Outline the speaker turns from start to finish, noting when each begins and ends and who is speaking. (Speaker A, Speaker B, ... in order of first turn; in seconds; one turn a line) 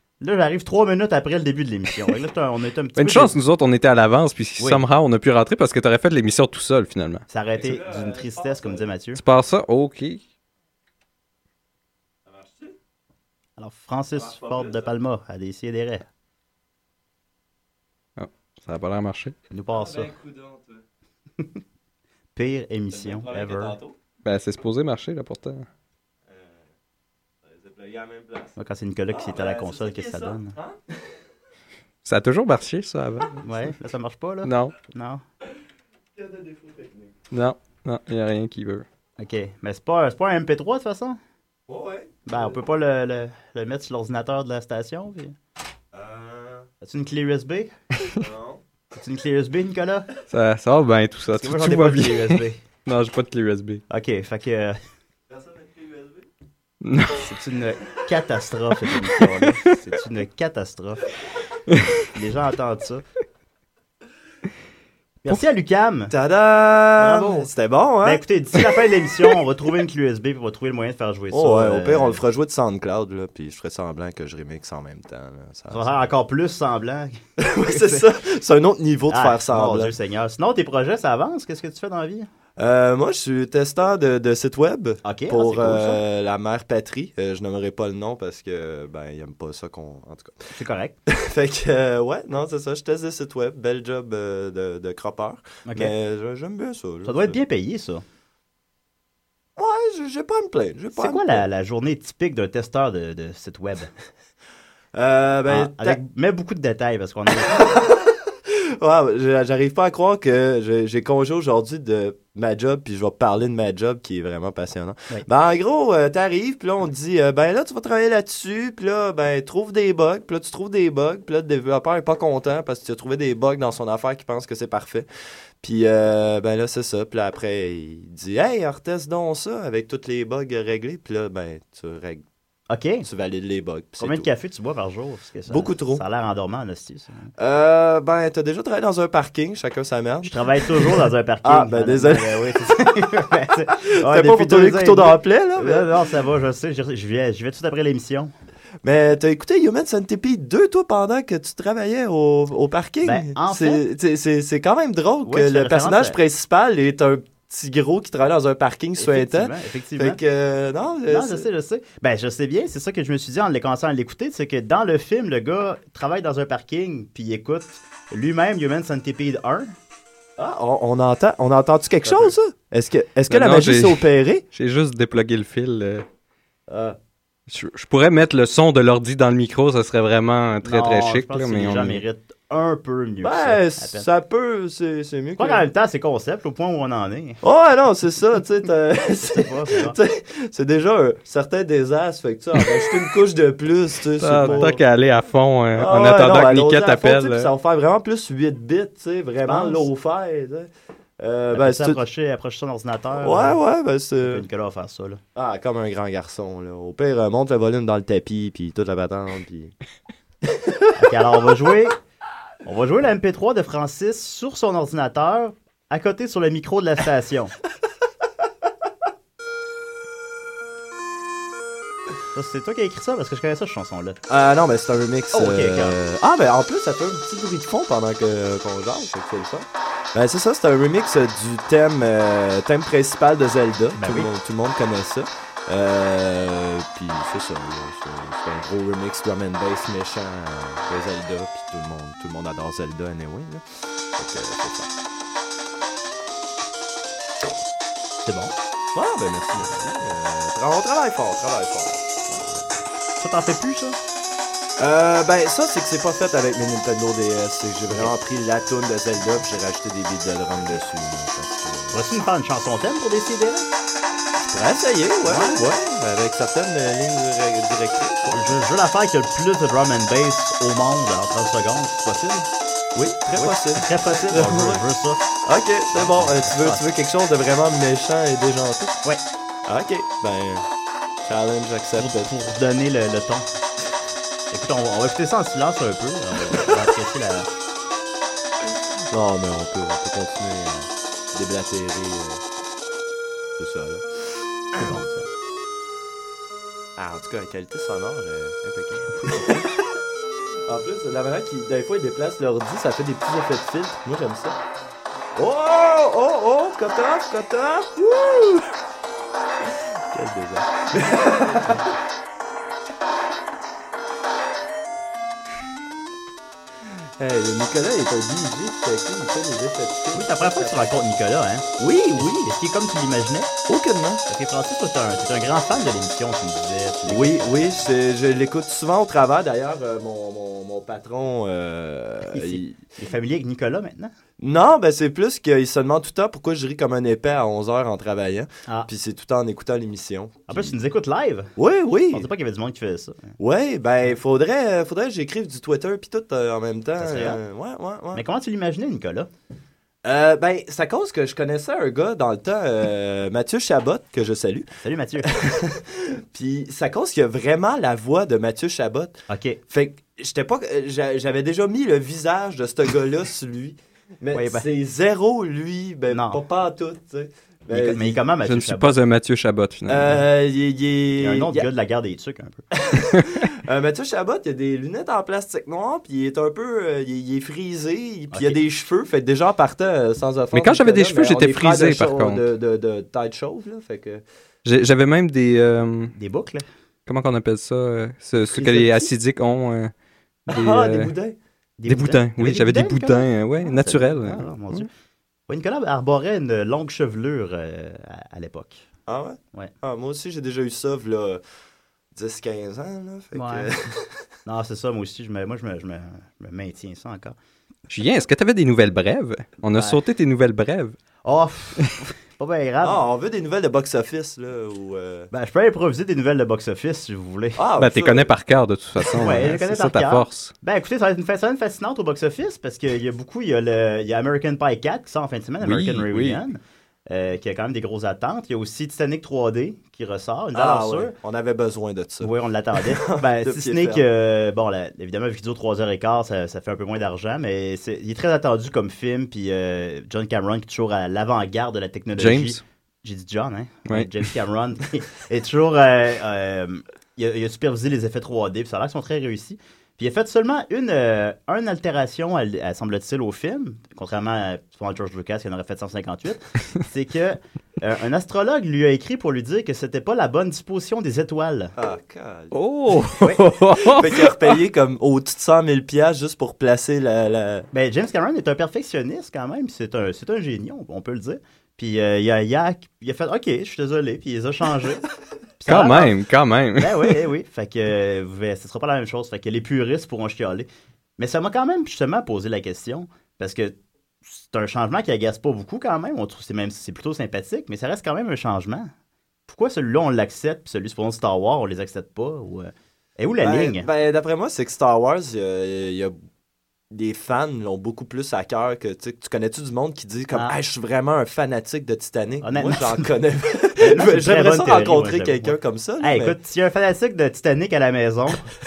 Speaker A: 0.2-3.3
Speaker B: 3.0-7.2
Speaker A: 4.6-4.8
Speaker A: 7.3-9.2
Speaker C: 7.5-8.9
Speaker B: 9.1-10.2
Speaker C: 12.2-12.8
Speaker A: 13.6-16.0
Speaker C: 14.1-14.9
Speaker B: 18.2-19.4
Speaker A: 19.5-20.1
Speaker C: 19.7-20.8
Speaker A: 22.3-23.8
Speaker C: 22.9-23.9
Speaker B: 24.2-25.6
Speaker C: 26.3-26.7
Speaker C: 27.4-28.5
Speaker A: 28.6-30.5
Speaker C: 29.1-31.0
Speaker B: 32.0-33.4
Speaker A: 33.4-35.2
Speaker B: 34.4-34.7
Speaker C: 36.1-37.2
Speaker B: 37.3-38.9
Speaker A: 39.2-41.2
Speaker C: 41.7-42.6
Speaker A: 42.2-45.3
Speaker C: 45.9-46.7
Speaker A: 46.8-47.7
Speaker C: 48.2-48.6
Speaker A: 48.9-50.1
Speaker B: 50.3-53.8
Speaker A: 51.3-52.6
Speaker A: 53.9-54.8
Speaker C: 55.3-56.3
Speaker B: 56.8-57.3
Speaker A: 57.2-61.0
Speaker A: 62.1-63.0
Speaker A: 65.2-66.1
Speaker C: 66.1-68.2
Speaker A: 67.0-67.5
Speaker A: 68.0-72.2
Speaker C: 71.3-75.9
Speaker A: 75.7-78.0
Speaker C: 77.4-80.0
Speaker A: 79.1-82.3
Speaker C: 82.6-90.5
Speaker A: 85.0-86.0
Speaker A: 90.5-91.0
Speaker C: 91.1-97.4
Speaker A: 95.7-95.9
Speaker A: 97.0-98.0
Speaker C: 99.6-101.4
Speaker A: 101.0-103.9
Speaker C: 104.9-106.0
Speaker A: 105.5-107.7
Speaker C: 107.5-125.0
Speaker C: 125.6-132.2
Speaker A: 132.7-133.1
Speaker C: 133.0-134.3
Speaker A: 134.0-137.3
Speaker C: 135.5-136.0
Speaker C: 137.4-142.6
Speaker A: 140.2-148.3
Speaker C: 143.8-145.9
Speaker C: 148.8-161.5
Speaker A: 153.0-153.8
Speaker A: 155.2-156.2
Speaker A: 159.0-160.2
Speaker A: 161.1-169.7
Speaker C: 170.4-174.4
Speaker A: 172.0-172.3
Speaker B: 173.3-176.1
Speaker C: 176.7-176.9
Speaker B: 177.5-182.0
Speaker A: 180.6-184.1
Speaker C: 183.2-185.6
Speaker A: 185.4-187.4
Speaker C: 187.4-194.8
Speaker A: 189.2-190.0
Speaker B: 194.2-197.5
Speaker A: 194.4-194.7
Speaker C: 195.7-202.0
Speaker A: 199.4-199.9
Speaker A: 201.5-203.6
Speaker C: 203.2-204.4
Speaker A: 204.2-205.2
Speaker C: 205.3-209.7
Speaker C: 210.4-210.9
Speaker A: 210.9-212.0
Speaker A: 212.6-217.5
Speaker A: 222.3-224.2
Speaker C: 224.3-243.6
Speaker A: 225.3-226.0
Speaker A: 233.9-234.3
Speaker C: 244.2-244.9
Speaker A: 248.2-248.5
Speaker C: 248.9-252.7
Speaker A: 249.7-250.0
Speaker A: 253.2-254.0
Speaker C: 254.8-261.9
Speaker A: 261.9-263.7
Speaker C: 264.4-268.6
Speaker A: 265.2-265.7
Speaker A: 268.3-272.5
Speaker C: 272.9-274.8
Speaker A: 273.3-275.2
Speaker C: 275.4-279.0
Speaker A: 275.9-276.8
Speaker C: 279.6-280.6
Speaker C: 281.2-282.3
Speaker A: 282.0-283.5
Speaker A: 284.5-287.5
Speaker C: 288.6-292.4
Speaker C: 293.6-295.0
Speaker A: 294.8-295.3
Speaker C: 296.9-299.7
Speaker C: 300.6-304.6
Speaker C: 305.3-308.7
Speaker C: 309.8-311.9
Speaker C: 317.2-321.0
Speaker A: 320.1-323.5
Speaker C: 321.8-322.3
Speaker C: 323.7-324.2
Speaker A: 324.3-327.6
Speaker C: 327.1-332.8
Speaker A: 332.3-334.1
Speaker C: 334.4-340.7
Speaker A: 340.5-341.5
Speaker C: 341.6-342.3
Speaker A: 342.1-343.3
Speaker C: 343.4-348.2
Speaker A: 347.0-347.4
Speaker A: 348.1-349.3
Speaker C: 350.0-354.7
Speaker A: 354.8-355.3
Speaker C: 355.2-359.2
Speaker A: 359.3-359.6
Speaker C: 359.7-368.2
Speaker A: 364.3-364.6
Speaker A: 366.1-366.4
Speaker A: 367.7-369.0
Speaker B: 368.4-370.2
Speaker C: 369.9-371.7
Speaker A: 371.2-372.6
Speaker C: 372.7-384.2
Speaker A: 378.3-378.6
Speaker B: 380.5-382.4
Speaker B: 384.6-386.1
Speaker A: 386.1-386.6
Speaker B: 387.1-389.9
Speaker A: 388.4-389.1
Speaker B: 390.5-391.1
Speaker C: 390.5-391.4
Speaker A: 391.8-394.9
Speaker B: 391.9-394.9
Speaker A: 395.5-398.9
Speaker C: 399.1-401.4
Speaker C: 402.1-404.2
Speaker A: 403.3-403.7
Speaker A: 404.4-407.3
Speaker B: 407.9-410.9
Speaker A: 409.7-410.0
Speaker A: 411.2-413.0
Speaker C: 412.8-415.3
Speaker A: 415.3-417.6
Speaker C: 417.6-418.3
Speaker B: 417.8-420.5
Speaker A: 419.2-431.1
Speaker B: 425.6-426.4
Speaker C: 430.5-434.0
Speaker A: 432.2-461.7
Speaker B: 442.2-442.6
Speaker C: 461.8-462.6
Speaker B: 462.5-464.4
Speaker C: 463.8-467.7
Speaker A: 467.7-475.0
Speaker A: 475.6-476.1
Speaker B: 475.7-477.2
Speaker A: 476.8-483.7
Speaker A: 484.2-488.9
Speaker A: 489.5-493.9
Speaker C: 493.4-496.1
Speaker C: 496.9-506.4
Speaker A: 502.4-503.1
Speaker A: 503.8-508.4